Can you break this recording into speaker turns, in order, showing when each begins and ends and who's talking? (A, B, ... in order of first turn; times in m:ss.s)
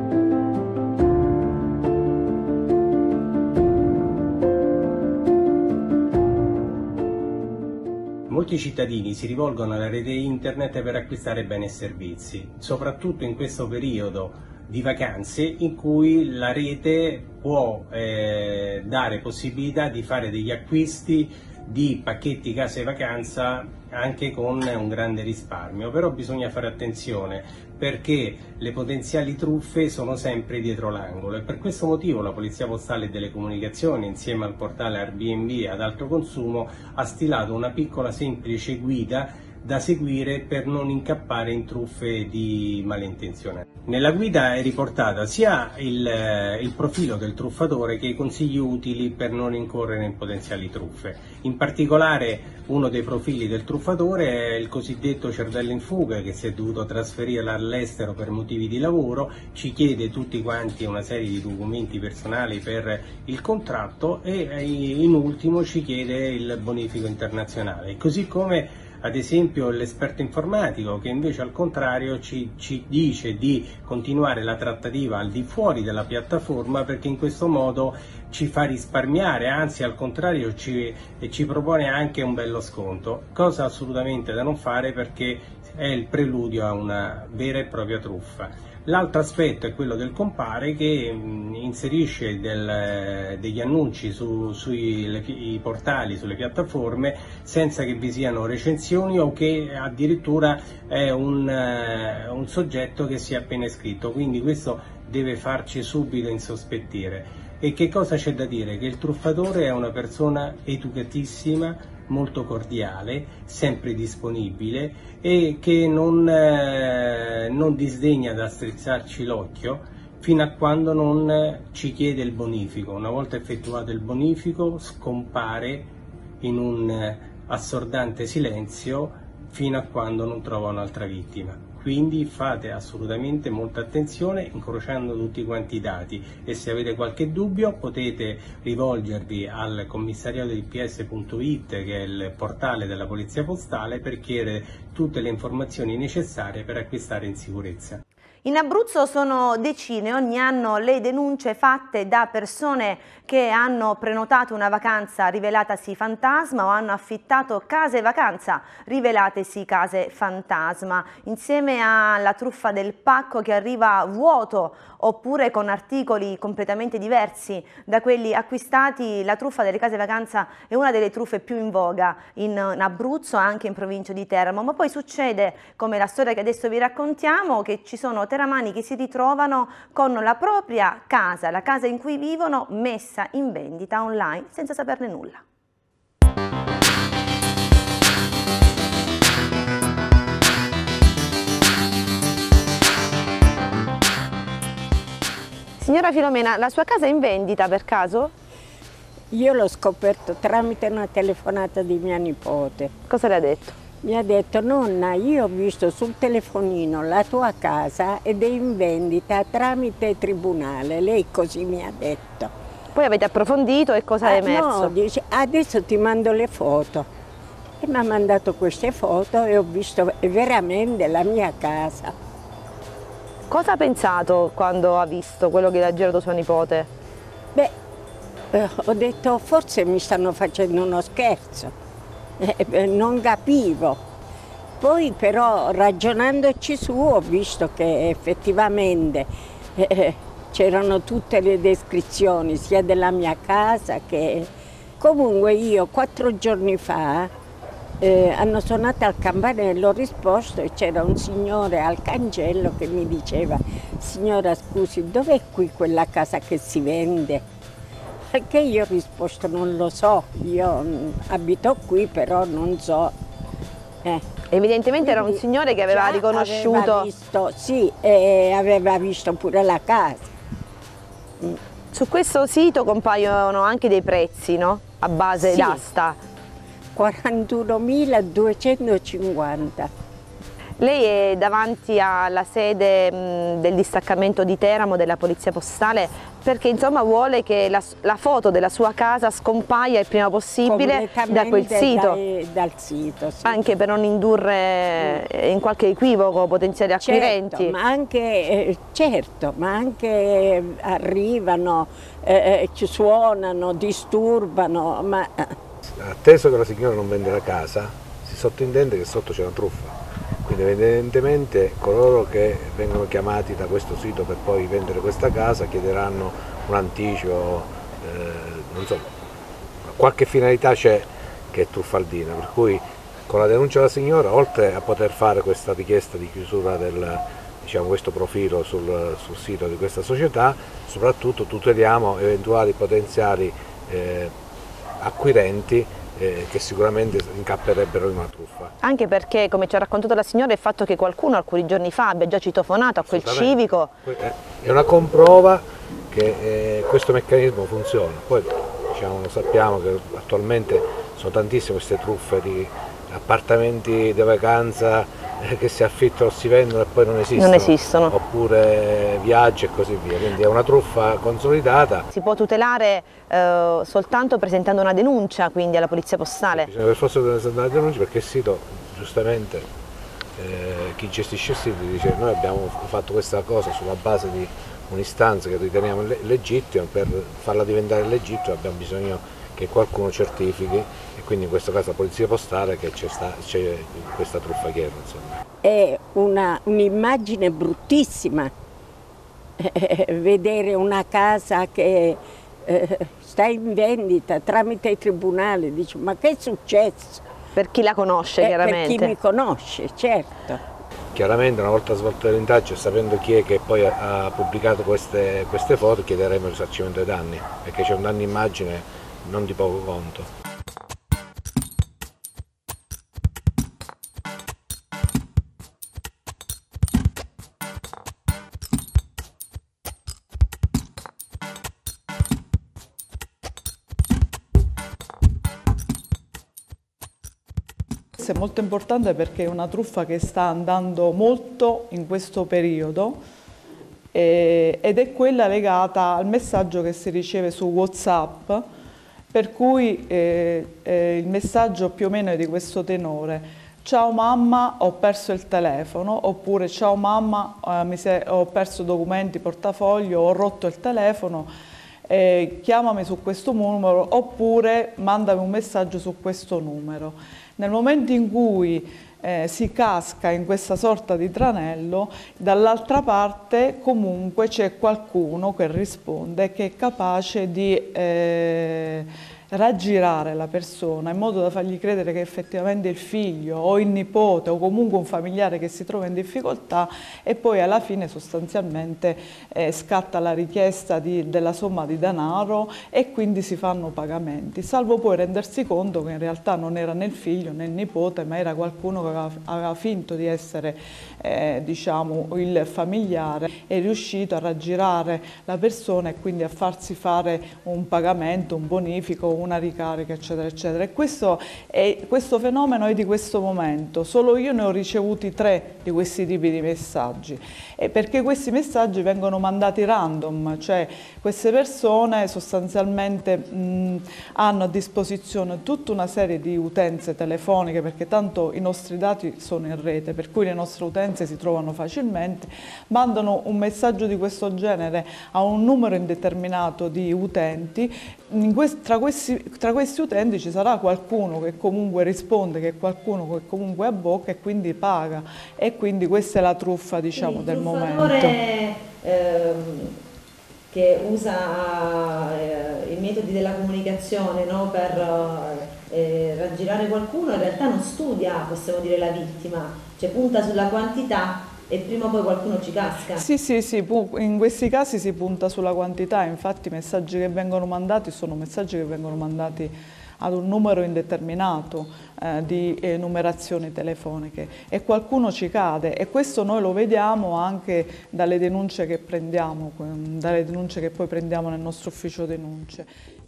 0:08.3-2:05.9 A
2:06.4-2:28.0 A
2:28.4-3:05.4 B
3:15.8-3:18.3 B
3:19.3-3:22.9 C
3:23.1-3:23.8 B
3:24.0-3:32.5 C
3:33.0-3:34.9 B
3:34.2-3:37.1 C
3:37.8-3:42.1 C
3:43.5-3:46.9 B
3:48.5-3:51.7 C
3:52.4-3:54.0 C
3:54.8-4:07.3 C
4:08.0-4:17.4 C
4:18.3-4:23.1 C
4:24.5-4:27.1 B
4:25.0-4:30.3 C
4:31.9-4:36.2 B
4:35.4-4:35.8 C
4:37.0-4:39.9 C
4:40.8-4:52.2 B
4:50.6-4:53.6 C
4:53.4-4:57.8 B
4:57.0-5:05.6 C
5:05.8-5:19.1 D
5:19.8-5:34.3 D
5:35.0-5:38.7 D
5:38.8-5:43.9 B
5:43.0-6:02.1 D
5:57.4-5:58.1 B
6:02.1-6:06.7 B
6:06.5-6:09.7 D
6:10.4-6:25.4 D
6:25.6-6:28.5 C
6:29.6-6:37.2 C
6:37.6-6:39.2 B
6:38.4-6:40.6 C
6:41.1-6:50.3 D
7:08.2-7:13.2 E
7:14.1-7:18.6 E
7:19.3-7:31.5 E
7:32.1-8:58.4 E
8:57.2-9:00.0 B
9:00.7-9:13.2 B
9:13.1-9:32.9 E